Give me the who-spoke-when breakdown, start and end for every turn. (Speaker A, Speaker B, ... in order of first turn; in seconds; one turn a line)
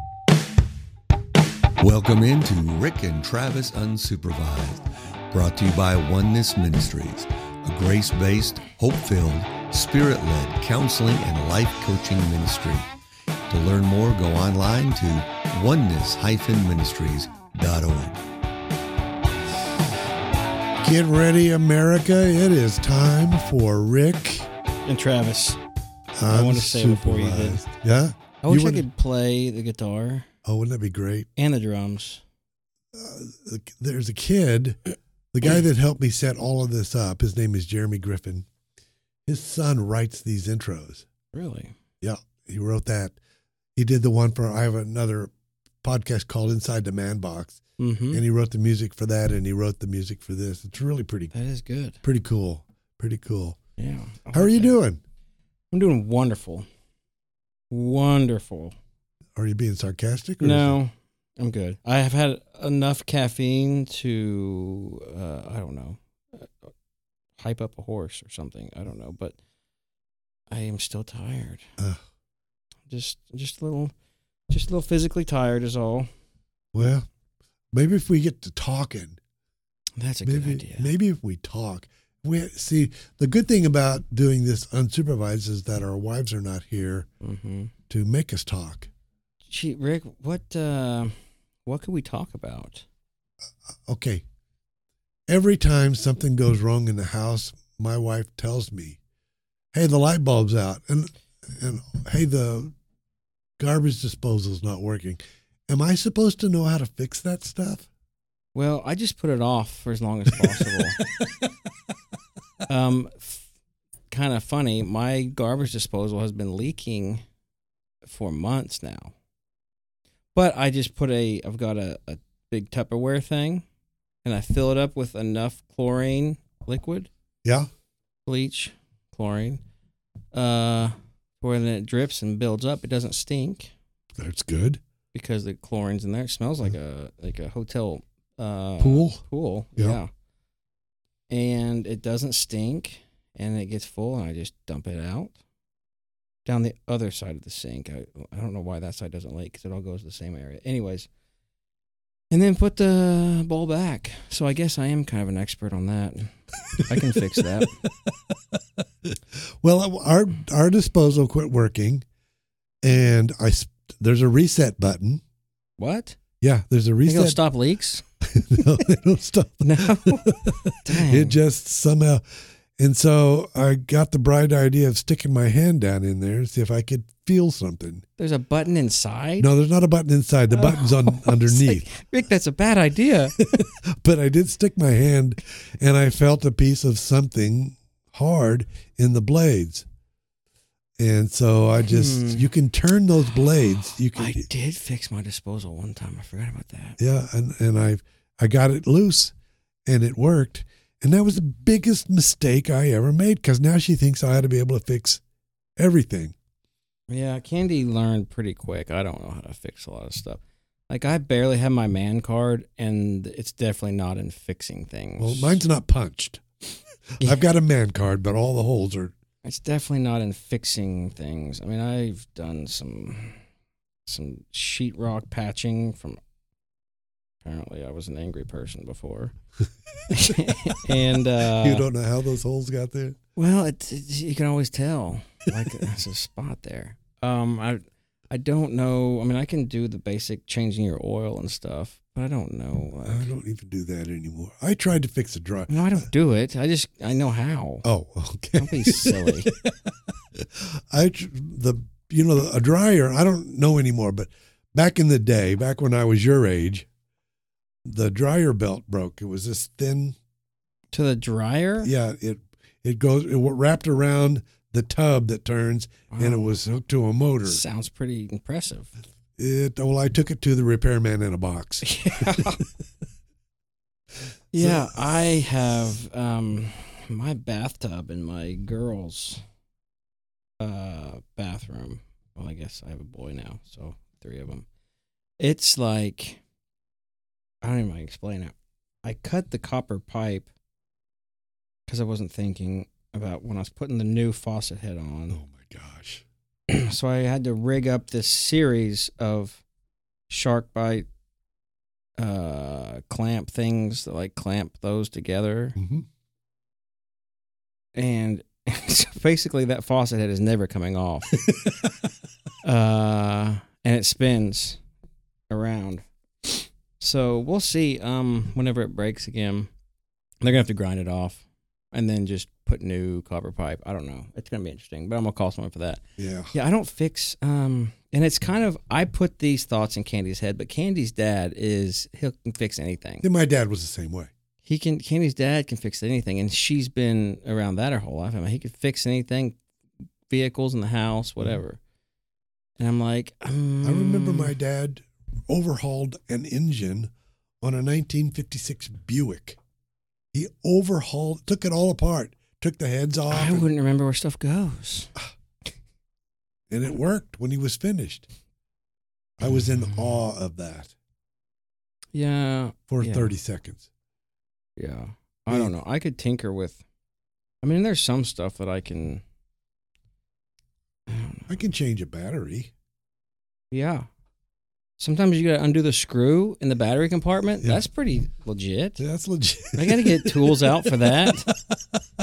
Speaker A: 1.8-12.9
Speaker A: 13.5-18.2
Speaker B: 20.8-24.5
Speaker C: 24.8-25.6
Speaker B: 26.1-28.9
Speaker C: 26.3-27.6
Speaker C: 28.4-30.2
Speaker B: 30.4-31.3
Speaker C: 31.4-32.2
Speaker B: 32.9-38.5
Speaker B: 39.3-41.0
Speaker C: 41.3-41.7
Speaker B: 42.0-43.2
Speaker B: 43.8-45.3
Speaker B: 45.8-47.6
Speaker C: 47.8-48.2
Speaker B: 48.1-51.3
Speaker C: 51.3-52.0
Speaker B: 52.0-53.6
Speaker C: 53.8-54.8
Speaker B: 54.3-55.0
Speaker C: 55.7-56.6
Speaker C: 57.7-58.7
Speaker B: 59.4-60.8
Speaker C: 60.4-66.7
Speaker C: 67.4-69.4
Speaker C: 70.5-71.6
Speaker C: 72.9-73.9
Speaker C: 74.5-76.1
Speaker B: 76.7-77.1
Speaker B: 77.7-79.2
Speaker C: 80.0-80.9
Speaker B: 80.2-87.1
Speaker C: 87.2-87.7
Speaker B: 87.9-88.9
Speaker C: 89.5-91.1
Speaker C: 91.6-92.8
Speaker B: 93.9-94.2
Speaker B: 95.3-99.0
Speaker B: 99.7-102.7
Speaker B: 103.6-107.9
Speaker C: 108.5-111.0
Speaker C: 112.7-113.5
Speaker C: 114.1-117.2
Speaker C: 118.0-119.1
Speaker C: 120.3-123.6
Speaker C: 124.2-127.1
Speaker C: 128.2-129.6
Speaker C: 130.3-133.7
Speaker B: 134.2-134.8
Speaker C: 135.1-140.1
Speaker B: 138.8-139.2
Speaker B: 139.8-140.0
Speaker C: 141.3-145.3
Speaker C: 146.4-151.1
Speaker C: 152.3-157.7
Speaker B: 158.1-159.1
Speaker B: 159.6-162.0
Speaker B: 162.8-165.2
Speaker C: 165.8-166.2
Speaker B: 166.4-167.4
Speaker C: 167.0-168.0
Speaker B: 168.3-172.2
Speaker C: 169.6-171.4
Speaker B: 172.8-178.0
Speaker C: 178.2-179.5
Speaker B: 179.4-181.9
Speaker C: 180.5-183.3
Speaker B: 183.3-189.8
Speaker B: 191.0-194.5
Speaker C: 191.8-192.5
Speaker C: 194.1-197.0
Speaker B: 197.0-199.3
Speaker B: 199.8-205.2
Speaker B: 205.8-206.3
Speaker C: 207.1-215.6
Speaker B: 215.2-219.1
Speaker C: 219.4-223.4
Speaker C: 224.1-226.2
Speaker C: 227.4-229.3
Speaker C: 230.1-231.9
Speaker B: 231.5-233.2
Speaker C: 233.3-243.3
Speaker B: 243.0-246.1
Speaker C: 245.7-247.8
Speaker B: 247.8-256.9
Speaker C: 248.6-249.5
Speaker B: 257.8-260.1
Speaker C: 260.9-261.9
Speaker B: 261.8-267.6
Speaker C: 266.1-266.6
Speaker C: 267.4-268.9
Speaker B: 269.4-272.4
Speaker C: 271.8-272.6
Speaker C: 274.5-279.4
Speaker B: 274.6-275.5
Speaker C: 280.6-284.6
Speaker C: 285.4-286.4
Speaker C: 287.6-290.5
Speaker C: 291.9-295.4
Speaker B: 295.3-296.2
Speaker C: 296.7-299.6
Speaker C: 300.3-301.1
Speaker C: 302.2-305.8
Speaker B: 305.8-306.0
Speaker C: 307.9-311.4
Speaker B: 311.3-311.7
Speaker C: 312.6-314.8
Speaker C: 315.5-316.1
Speaker C: 317.0-319.7
Speaker C: 320.4-326.0
Speaker B: 326.2-326.5
Speaker C: 326.5-333.3
Speaker B: 333.2-334.3
Speaker C: 334.6-339.6
Speaker C: 340.3-341.8
Speaker C: 342.8-344.5
Speaker B: 343.8-347.1
Speaker B: 347.6-349.6
Speaker B: 350.3-353.7
Speaker C: 353.3-355.1
Speaker B: 356.7-358.3
Speaker B: 359.4-360.9
Speaker C: 359.8-360.2
Speaker C: 362.1-363.4
Speaker B: 362.9-363.9
Speaker C: 364.8-366.8
Speaker B: 365.5-365.7
Speaker C: 367.6-369.2
Speaker C: 371.1-371.6
Speaker B: 371.5-372.7
Speaker C: 373.7-374.1
Speaker C: 375.0-379.0
Speaker B: 379.0-382.0
Speaker C: 379.7-381.5